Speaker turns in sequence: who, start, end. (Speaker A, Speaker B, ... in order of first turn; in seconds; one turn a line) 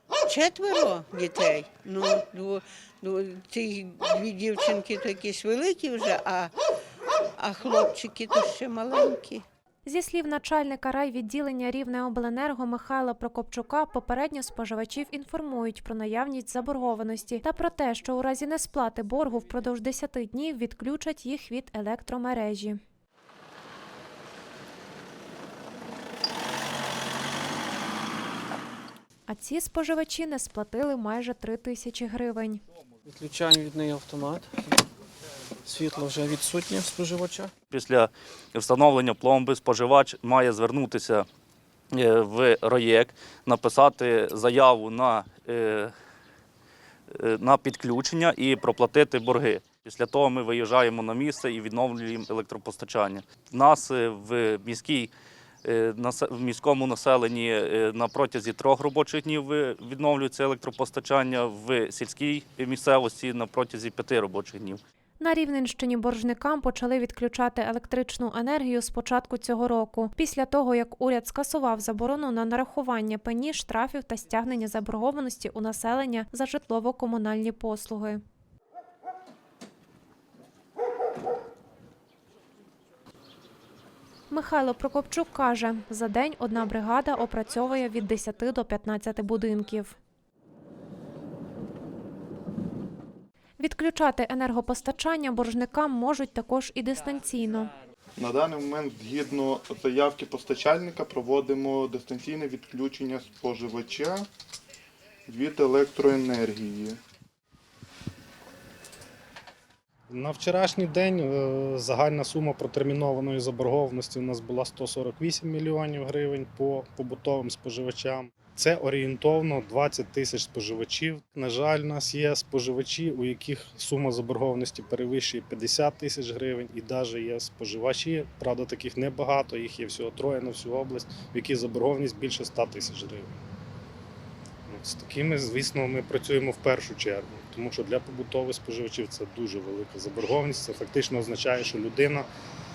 Speaker A: 0.2-6.5
Speaker A: 7.3-9.4
Speaker B: 9.8-22.8
Speaker B: 29.3-32.6
Speaker C: 33.0-34.8
Speaker C: 35.6-37.5
Speaker D: 37.7-41.2
Speaker D: 41.9-45.9
Speaker D: 47.1-55.1
Speaker D: 55.6-64.8
Speaker B: 65.2-78.2
Speaker B: 84.3-90.0
Speaker B: 93.6-97.7
Speaker E: 98.2-104.3
Speaker E: 105.3-107.0
Speaker F: 110.1-133.3
Speaker F: 134.7-142.3